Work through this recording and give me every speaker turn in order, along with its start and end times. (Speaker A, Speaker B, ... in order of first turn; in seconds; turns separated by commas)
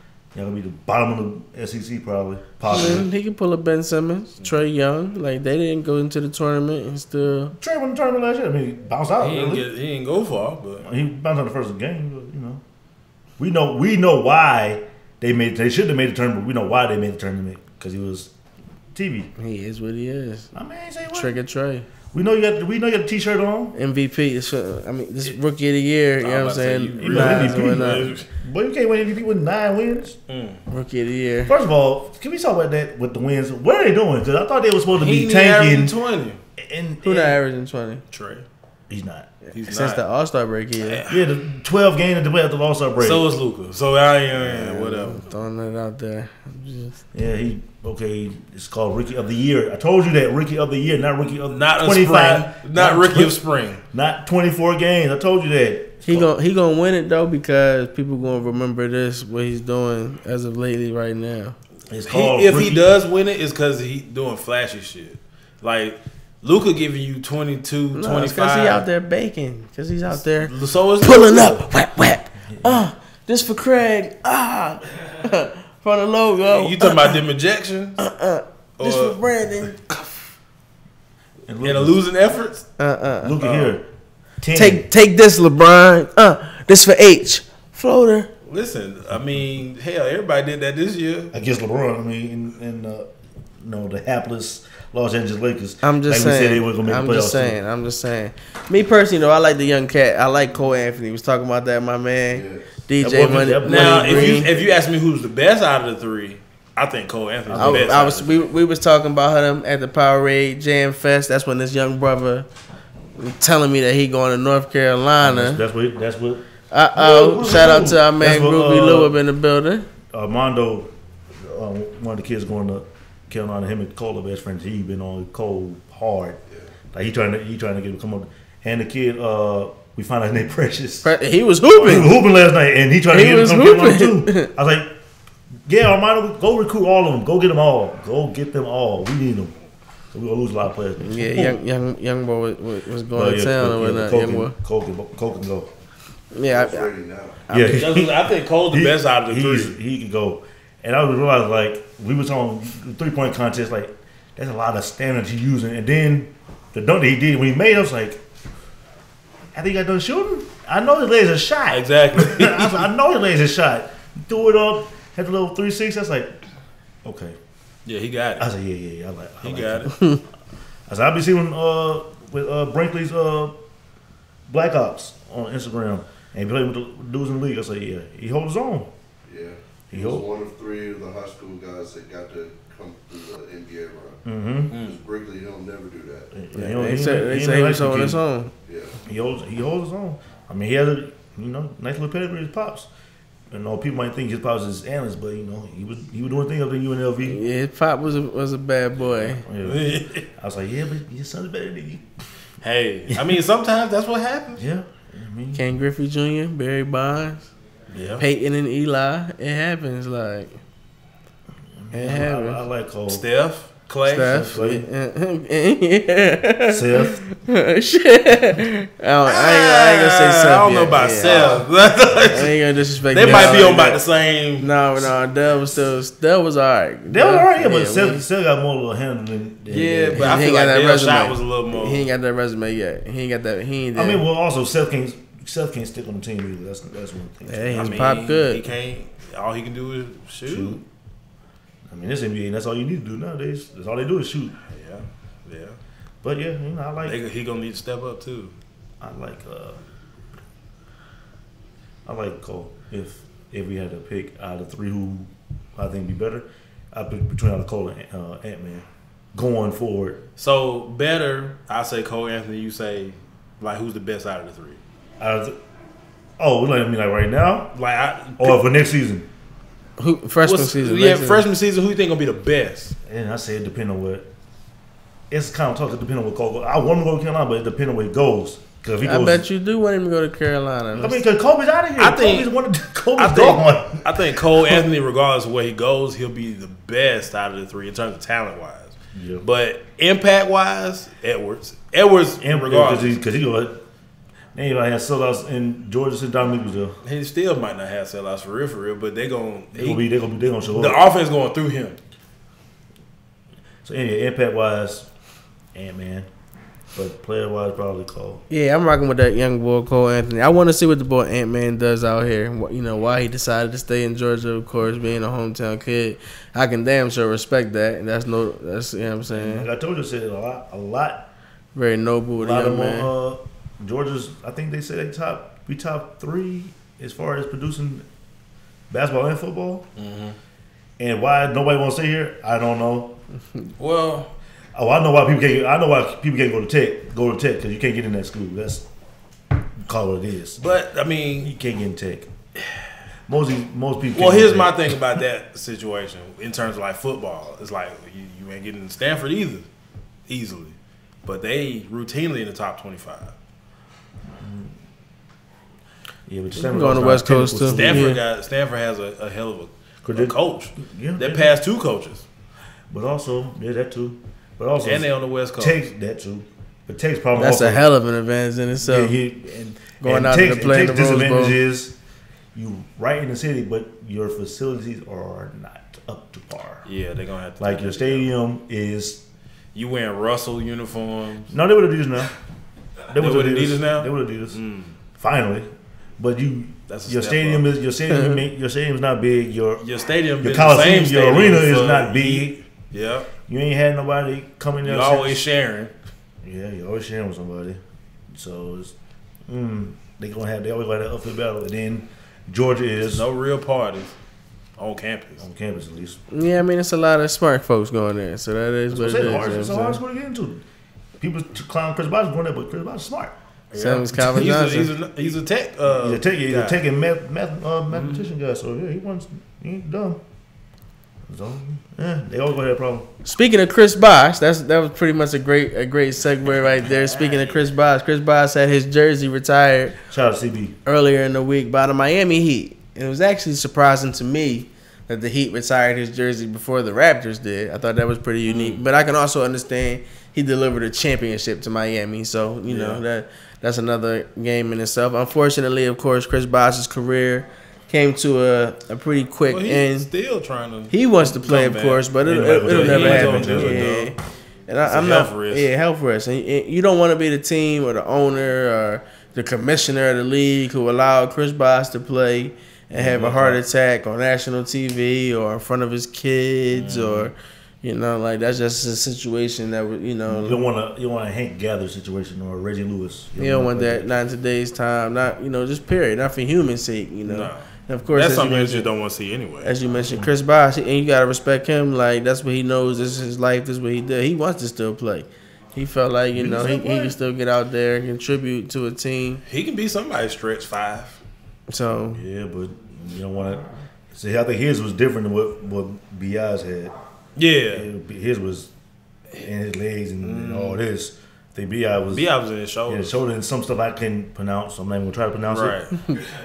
Speaker A: 0.3-3.1, Speaker B: 2.7-7.5, Speaker A: 7.5-9.7, Speaker C: 9.2-10.9, Speaker A: 10.8-12.6, Speaker A: 13.4-18.3, Speaker A: 18.9-19.3, Speaker B: 19.4-20.5, Speaker A: 20.5-21.4, Speaker B: 21.1-21.9, Speaker A: 22.1-23.8, Speaker B: 23.8-28.1, Speaker C: 26.2-28.3, Speaker A: 27.0-30.2, Speaker C: 30.3-30.6, Speaker B: 30.7-31.5, Speaker A: 31.5-36.0, Speaker C: 34.9-36.4, Speaker A: 36.6-37.4, Speaker B: 37.0-38.0, Speaker C: 38.1-38.5, Speaker A: 38.9-39.3, Speaker C: 39.5-40.0, Speaker B: 39.6-41.0, Speaker C: 40.8-41.2, Speaker A: 41.1-43.2, Speaker C: 43.0-45.2, Speaker B: 44.4-47.0, Speaker A: 47.1-53.4, Speaker C: 51.5-53.8, Speaker A: 53.9-56.3, Speaker B: 56.1-61.6, Speaker A: 61.9-63.0, Speaker C: 62.0-68.8, Speaker B: 68.0-77.2, Speaker C: 70.4-71.6, Speaker A: 72.5-72.9, Speaker C: 76.5-78.0, Speaker B: 78.0-80.0, Speaker C: 78.8-79.2, Speaker A: 81.5-82.0, Speaker C: 81.6-82.7, Speaker B: 82.8-83.4, Speaker A: 83.2-83.9, Speaker C: 83.4-83.8, Speaker A: 84.4-84.9, Speaker B: 84.5-88.3, Speaker C: 88.5-91.3, Speaker A: 91.3-97.6, Speaker B: 95.8-104.5, Speaker D: 102.3-102.7, Speaker A: 103.0-104.7, Speaker C: 103.7-108.5, Speaker A: 107.5-108.0, Speaker B: 107.6-112.5, Speaker B: 113.2-115.6, Speaker A: 115.2-119.2, Speaker B: 116.7-119.9, Speaker A: 120.1-126.4, Speaker A: 126.9-131.1, Speaker B: 131.0-132.2, Speaker A: 131.7-135.0, Speaker B: 133.1-134.5, Speaker A: 135.7-139.6, Speaker A: 140.1-141.6, Speaker B: 141.0-144.5, Speaker A: 143.1-145.7, Speaker B: 146.3-146.9, Speaker D: 146.4-147.5, Speaker B: 147.5-147.9, Speaker A: 147.5-158.2, Speaker C: 147.6-149.8, Speaker A: 159.6-166.4, Speaker C: 161.7-162.9, Speaker A: 167.0-167.4, Speaker C: 167.9-168.5, Speaker A: 168.4-170.0, Speaker C: 169.4-169.9, Speaker A: 170.9-173.6, Speaker A: 174.5-178.9, Speaker D: 179.3-186.3, Speaker A: 179.9-180.3, Speaker A: 184.2-184.7, Speaker C: 184.7-185.0, Speaker A: 186.3-188.2, Speaker B: 186.5-188.5, Speaker D: 188.7-189.0, Speaker A: 189.1-192.9, Speaker A: 193.5-197.4, Speaker B: 197.3-199.4, Speaker A: 199.2-202.1, Speaker C: 199.6-200.2, Speaker C: 202.6-204.6, Speaker A: 203.1-203.4, Speaker A: 204.6-205.6, Speaker B: 205.5-207.5, Speaker A: 207.9-208.2, Speaker C: 207.9-208.2, Speaker B: 208.2-210.6, Speaker A: 211.8-213.2, Speaker B: 211.9-212.6, Speaker C: 213.1-214.6, Speaker B: 214.1-221.6, Speaker A: 214.5-214.9, Speaker A: 216.7-217.2, Speaker C: 219.3-224.7, Speaker B: 222.2-224.0, Speaker A: 223.2-223.9, Speaker B: 224.6-228.2, Speaker A: 227.1-230.4, Speaker C: 229.7-232.1, Speaker B: 230.2-234.2, Speaker A: 233.9-238.2, Speaker B: 237.5-238.7, Speaker C: 237.7-240.8, Speaker A: 240.5-240.8, Speaker A: 241.9-244.6, Speaker C: 244.7-245.8, Speaker A: 246.2-247.2, Speaker C: 247.1-248.6, Speaker A: 249.0-249.8, Speaker A: 252.1-260.2, Speaker C: 260.4-264.8, Speaker A: 265.2-265.6, Speaker A: 266.4-267.7, Speaker C: 267.7-268.6, Speaker A: 268.4-269.3, Speaker B: 270.0-271.4, Speaker C: 270.4-272.9, Speaker A: 273.1-274.3, Speaker A: 275.3-279.4, Speaker B: 279.0-281.2, Speaker A: 280.9-284.8, Speaker C: 282.0-282.5, Speaker C: 283.2-293.2, Speaker A: 289.1-289.4, Speaker A: 292.4-293.8, Speaker A: 294.5-297.0, Speaker C: 297.0-300.0, Speaker A: 299.7-301.0, Speaker C: 300.7-302.0, Speaker A: 303.8-305.1, Speaker A: 305.7-306.3, Speaker A: 306.9-308.4, Speaker B: 308.5-319.7, Speaker A: 319.3-321.3, Speaker B: 321.8-323.1, Speaker A: 322.4-328.1, Speaker A: 328.9-329.9, Speaker C: 330.0-330.4, Speaker A: 331.0-333.2, Speaker C: 333.8-334.3, Speaker A: 334.8-338.9, Speaker A: 339.8-340.7, Speaker C: 340.6-341.5, Speaker A: 341.4-342.3, Speaker A: 343.3-344.9, Speaker C: 344.1-349.7, Speaker C: 350.3-353.3, Speaker A: 354.3-354.8, Speaker A: 356.3-358.2, Speaker B: 356.6-358.2, Speaker C: 357.6-362.3, Speaker A: 360.0-361.6, Speaker A: 362.9-367.9, Speaker C: 364.8-365.8, Speaker B: 367.4-369.2, Speaker A: 368.8-372.0, Speaker B: 370.0-371.6, Speaker A: 372.5-376.9, Speaker C: 376.9-378.3, Speaker A: 377.6-379.2, Speaker C: 379.7-381.5, Speaker A: 381.5-382.3, Speaker A: 383.1-384.6, Speaker C: 383.1-384.9, Speaker A: 385.2-389.9, Speaker C: 386.9-387.7, Speaker C: 389.8-393.3, Speaker A: 390.4-392.6, Speaker A: 393.5-395.4, Speaker C: 394.9-395.9, Speaker A: 396.4-397.8, Speaker A: 398.3-398.9, Speaker A: 399.5-403.3, Speaker C: 403.1-404.1, Speaker C: 404.8-405.4, Speaker A: 405.4-406.2, Speaker B: 406.3-410.0, Speaker A: 408.9-410.6, Speaker A: 411.2-413.4, Speaker C: 413.7-416.8, Speaker B: 413.8-414.9, Speaker A: 415.9-420.2, Speaker A: 421.3-423.1, Speaker B: 423.2-430.0, Speaker A: 430.1-430.8, Speaker B: 430.9-450.1, Speaker C: 438.5-438.8, Speaker A: 442.7-443.0, Speaker C: 449.5-454.1, Speaker B: 450.9-454.2, Speaker A: 452.2-454.1, Speaker B: 454.7-470.6, Speaker C: 454.8-455.7, Speaker A: 462.9-463.6, Speaker C: 466.7-467.3, Speaker A: 470.3-474.1, Speaker B: 473.4-478.9, Speaker C: 477.3-479.7, Speaker B: 479.6-489.4, Speaker A: 486.3-487.2, Speaker C: 489.5-491.2, Speaker B: 491.7-492.2, Speaker A: 492.1-496.9, Speaker C: 497.4-497.9, Speaker A: 497.7-498.7, Speaker A: 499.4-502.3, Speaker C: 500.2-500.8, Speaker C: 502.1-503.1, Speaker A: 502.9-505.8, Speaker C: 505.5-505.9